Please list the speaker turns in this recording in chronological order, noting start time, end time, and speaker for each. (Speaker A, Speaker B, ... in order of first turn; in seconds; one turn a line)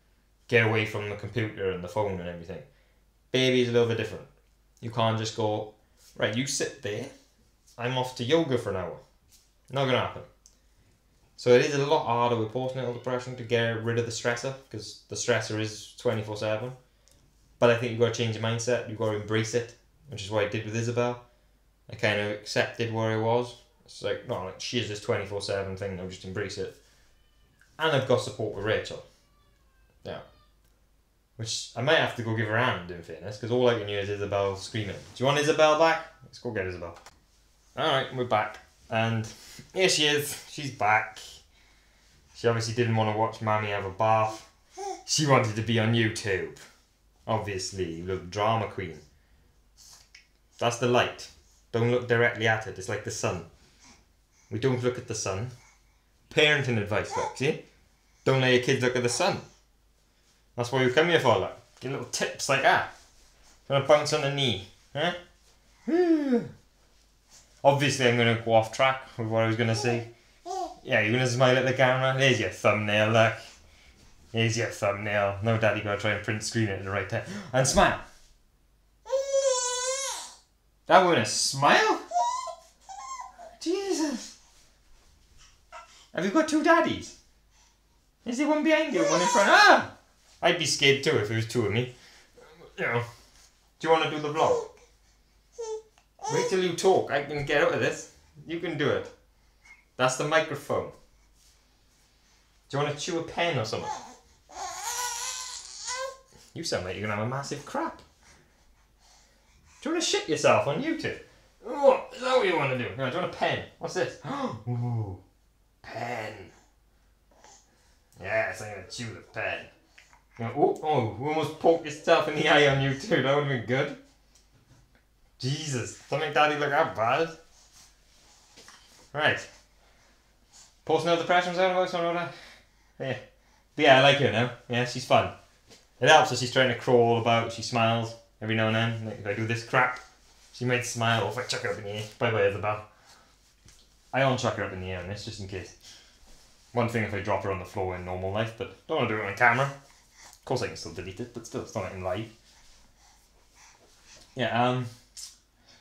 Speaker A: 0.5-2.7
Speaker A: 3.3-4.3
Speaker A: 4.8-7.1
Speaker A: 7.8-9.0
Speaker A: 9.7-10.3
Speaker A: 11.4-16.8
Speaker A: 17.6-21.2
Speaker A: 21.9-26.8
Speaker A: 27.8-29.1
Speaker A: 31.4-37.0
Speaker A: 37.8-41.4
Speaker A: 42.3-44.5
Speaker A: 45.1-46.6
Speaker A: 47.3-49.0
Speaker A: 50.6-53.5
Speaker A: 54.5-55.5
Speaker A: 56.3-57.6
Speaker A: 58.2-59.5
Speaker A: 60.6-62.9
Speaker A: 63.7-65.2
Speaker A: 65.9-66.5
Speaker A: 67.6-70.1
Speaker A: 70.8-73.4
Speaker A: 74.3-78.0
Speaker A: 80.9-82.0
Speaker A: 83.6-84.3
Speaker A: 86.1-87.2
Speaker A: 88.2-89.9
Speaker A: 90.4-91.9
Speaker A: 92.5-93.1
Speaker A: 93.8-94.7
Speaker A: 96.3-99.1
Speaker A: 100.0-101.0
Speaker A: 102.7-104.0
Speaker A: 106.5-108.0
Speaker A: 109.8-115.2
Speaker A: 115.8-116.5
Speaker A: 118.2-119.7
Speaker A: 120.4-124.0
Speaker A: 125.4-127.4
Speaker A: 129.1-129.5
Speaker A: 130.8-132.3
Speaker A: 133.8-135.3
Speaker A: 136.0-140.0
Speaker A: 140.5-142.8
Speaker A: 144.1-145.8
Speaker A: 146.7-149.7
Speaker A: 150.4-152.3
Speaker A: 154.3-154.9